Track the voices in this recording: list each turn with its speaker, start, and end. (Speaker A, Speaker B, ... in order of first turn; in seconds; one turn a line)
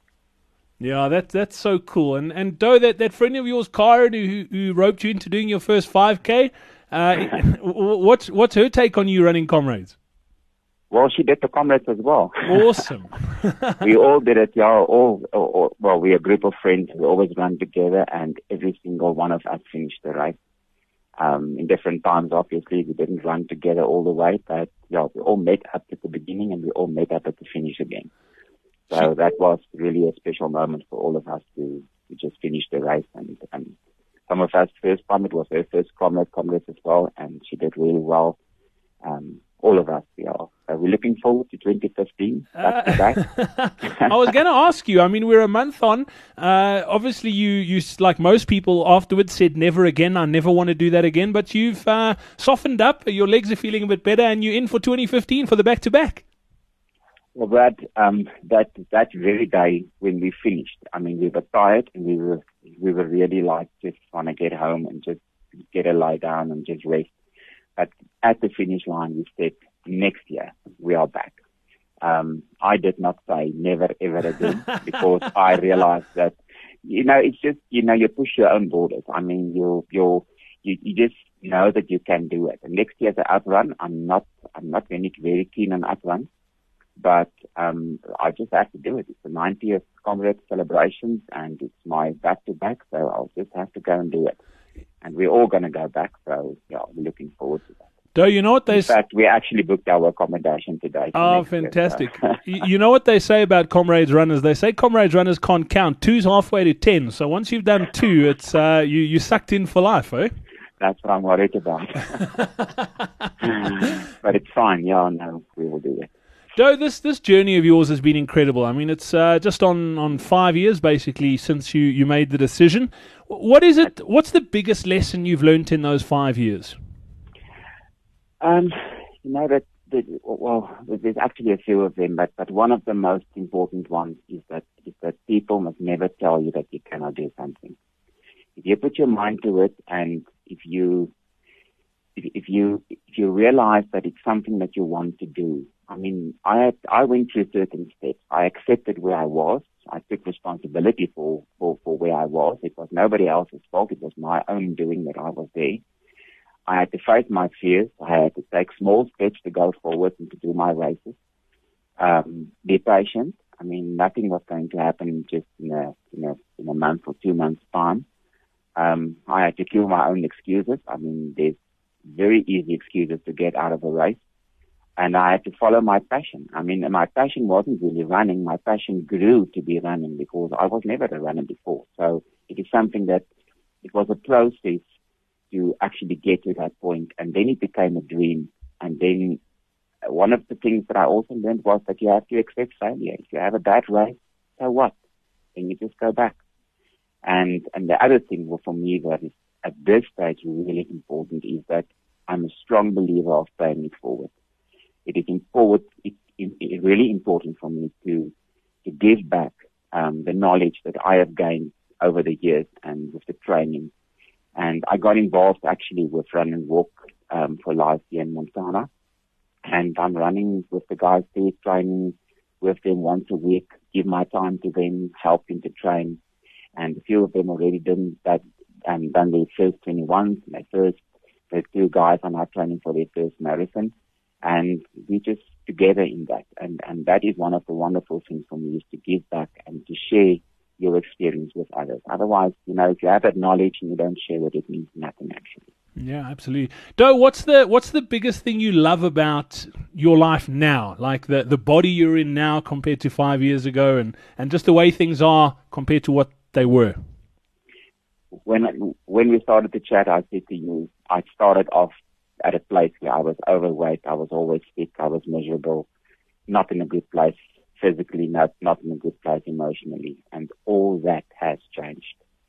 Speaker A: 0.8-10.0
Speaker B: 10.9-12.8
Speaker A: 12.4-13.8
Speaker B: 13.8-20.4
Speaker B: 21.2-28.1
Speaker B: 28.9-33.7
Speaker B: 34.3-38.4
Speaker B: 39.0-43.2
Speaker A: 42.6-56.2
Speaker B: 57.4-65.2
Speaker B: 65.7-67.1
Speaker B: 67.8-71.4
Speaker B: 72.0-86.3
Speaker B: 87.0-94.4
Speaker B: 95.0-97.8
Speaker A: 98.2-98.9
Speaker B: 98.7-102.4
Speaker A: 101.2-110.3
Speaker B: 110.8-112.3
Speaker B: 113.4-116.1
Speaker A: 116.5-126.8
Speaker B: 128.4-137.8
Speaker B: 138.6-141.1
Speaker B: 142.2-155.8
Speaker B: 156.7-161.2
Speaker B: 162.0-168.0
Speaker B: 168.8-174.2
Speaker B: 175.0-183.2
Speaker B: 183.8-184.8
Speaker B: 185.5-189.4
Speaker B: 190.1-194.9
Speaker B: 195.6-196.4
Speaker B: 197.2-204.3
Speaker B: 205.1-208.3
Speaker B: 208.8-213.9
Speaker B: 214.6-218.9
Speaker B: 219.6-226.2
Speaker B: 226.8-233.9
Speaker B: 234.4-245.7
Speaker A: 246.0-257.0
Speaker B: 258.5-265.9
Speaker B: 266.5-272.2